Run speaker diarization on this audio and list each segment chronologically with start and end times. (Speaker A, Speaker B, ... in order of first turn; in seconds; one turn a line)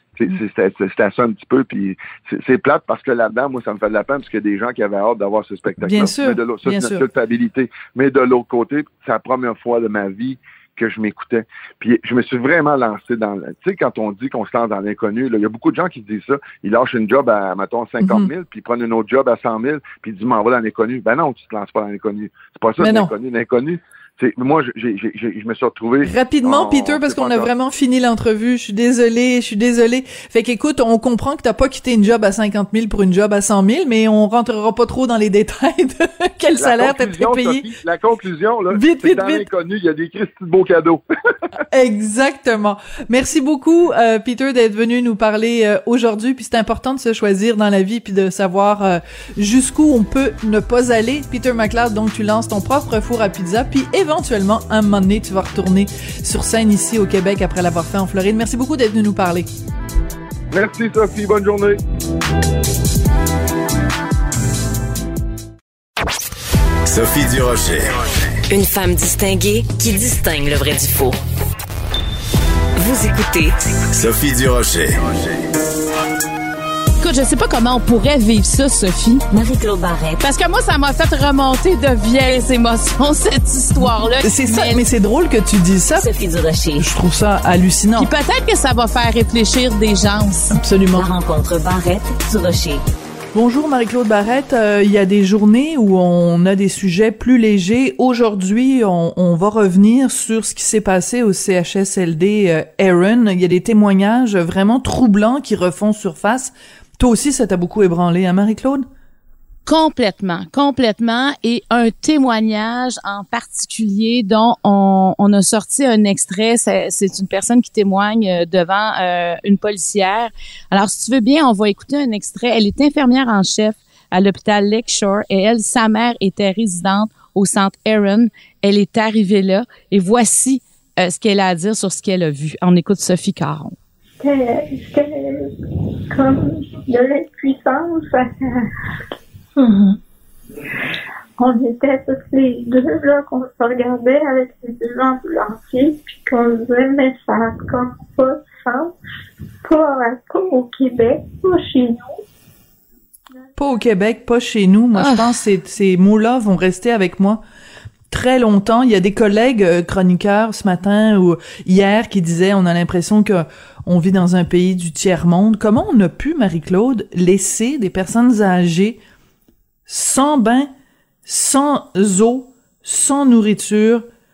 Speaker A: 0.2-27.5
Speaker B: 5.8-7.0
Speaker B: 18.0-18.3
Speaker B: 22.8-23.1
Speaker B: 26.0-37.6
Speaker A: 36.6-41.0
Speaker B: 38.7-39.5
Speaker B: 41.7-59.5
Speaker A: 60.5-61.8
Speaker C: 66.8-68.0
Speaker D: 68.5-71.2
Speaker D: 72.8-73.5
Speaker C: 73.9-75.4
Speaker E: 77.0-79.2
Speaker D: 79.3-80.2
Speaker E: 80.2-84.8
Speaker B: 84.2-86.1
Speaker D: 86.0-86.9
Speaker B: 86.8-88.1
Speaker E: 88.0-90.5
Speaker B: 90.5-91.1
Speaker D: 90.9-92.8
Speaker B: 93.3-108.8
Speaker E: 109.7-133.8
Speaker F: 134.2-135.5
Speaker F: 136.1-138.7
Speaker F: 139.6-140.0
Speaker F: 141.4-148.9
Speaker F: 149.6-152.2
Speaker B: 153.6-157.4
Speaker E: 154.9-155.3
Speaker B: 158.1-169.0
Speaker B: 169.9-170.7
Speaker B: 171.2-174.1